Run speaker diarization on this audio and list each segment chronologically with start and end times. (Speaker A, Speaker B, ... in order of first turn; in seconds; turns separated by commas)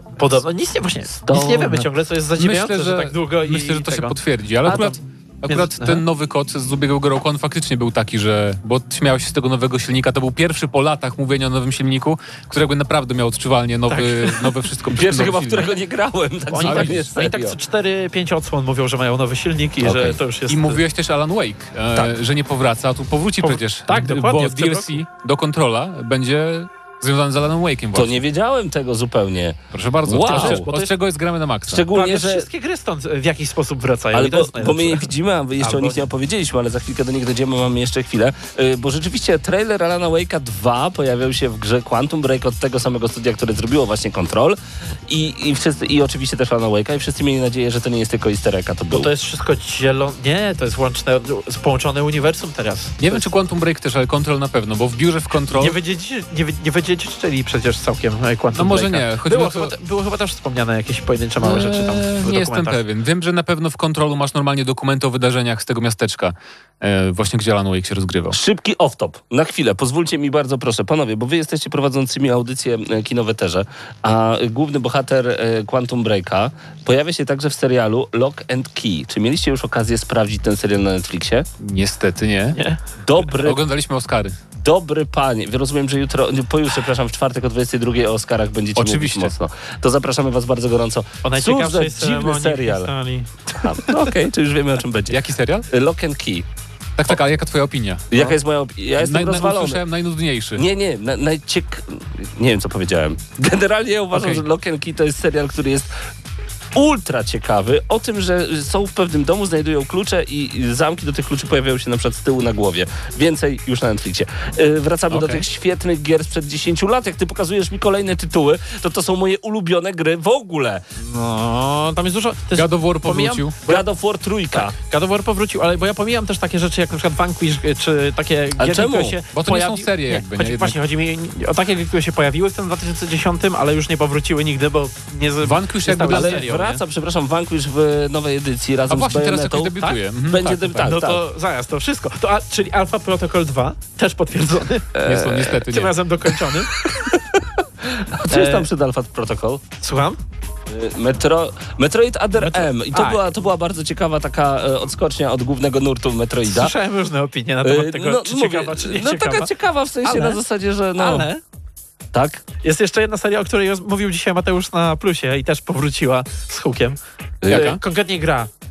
Speaker A: 0.2-6.0, Speaker B: 1.2-1.8, Speaker C: 1.6-1.8, Speaker C: 2.4-15.7, Speaker A: 13.9-14.5, Speaker B: 14.9-17.6, Speaker A: 16.5-20.8, Speaker C: 16.6-17.1, Speaker B: 19.8-20.2, Speaker C: 20.5-28.2, Speaker A: 23.4-25.0, Speaker B: 27.9-30.7, Speaker C: 29.7-31.9, Speaker A: 30.1-31.0, Speaker B: 31.7-32.5, Speaker A: 31.9-35.1, Speaker B: 34.1-49.1, Speaker A: 35.6-36.0, Speaker A: 48.9-53.2, Speaker C: 53.0-55.8, Speaker A: 55.5-62.8, Speaker C: 58.5-59.7, Speaker C: 61.4-68.4, Speaker B: 68.3-81.5, Speaker C: 81.6-82.6, Speaker A: 82.5-82.8, Speaker B: 83.0-83.6, Speaker C: 83.3-84.4, Speaker B: 84.6-92.9, Speaker C: 88.8-89.3, Speaker A: 91.2-94.0, Speaker B: 93.6-95.2, Speaker C: 95.1-95.7, Speaker B: 95.7-96.5, Speaker C: 97.0-98.3, Speaker B: 98.1-99.8, Speaker C: 99.0-100.7, Speaker B: 100.5-105.9, Speaker C: 104.1-104.4, Speaker B: 106.7-120.8, Speaker C: 115.1-115.4, Speaker A: 121.0-123.8, Speaker C: 122.5-123.6, Speaker B: 123.6-124.7, Speaker A: 124.5-136.8, Speaker B: 128.6-129.2, Speaker C: 129.3-130.8, Speaker C: 135.4-136.4, Speaker B: 136.0-141.2, Speaker C: 138.9-140.9, Speaker A: 139.8-144.9, Speaker B: 144.9-145.5, Speaker C: 145.1-146.0, Speaker A: 145.6-146.7, Speaker B: 146.5-149.7, Speaker A: 148.3-148.7, Speaker A: 149.8-150.2, Speaker B: 150.7-156.7, Speaker A: 152.4-153.2, Speaker A: 156.4-159.5, Speaker B: 157.6-161.3, Speaker A: 160.0-160.4, Speaker A: 160.9-161.4, Speaker B: 162.1-162.4, Speaker A: 162.6-168.5, Speaker B: 167.4-167.8, Speaker C: 167.5-167.8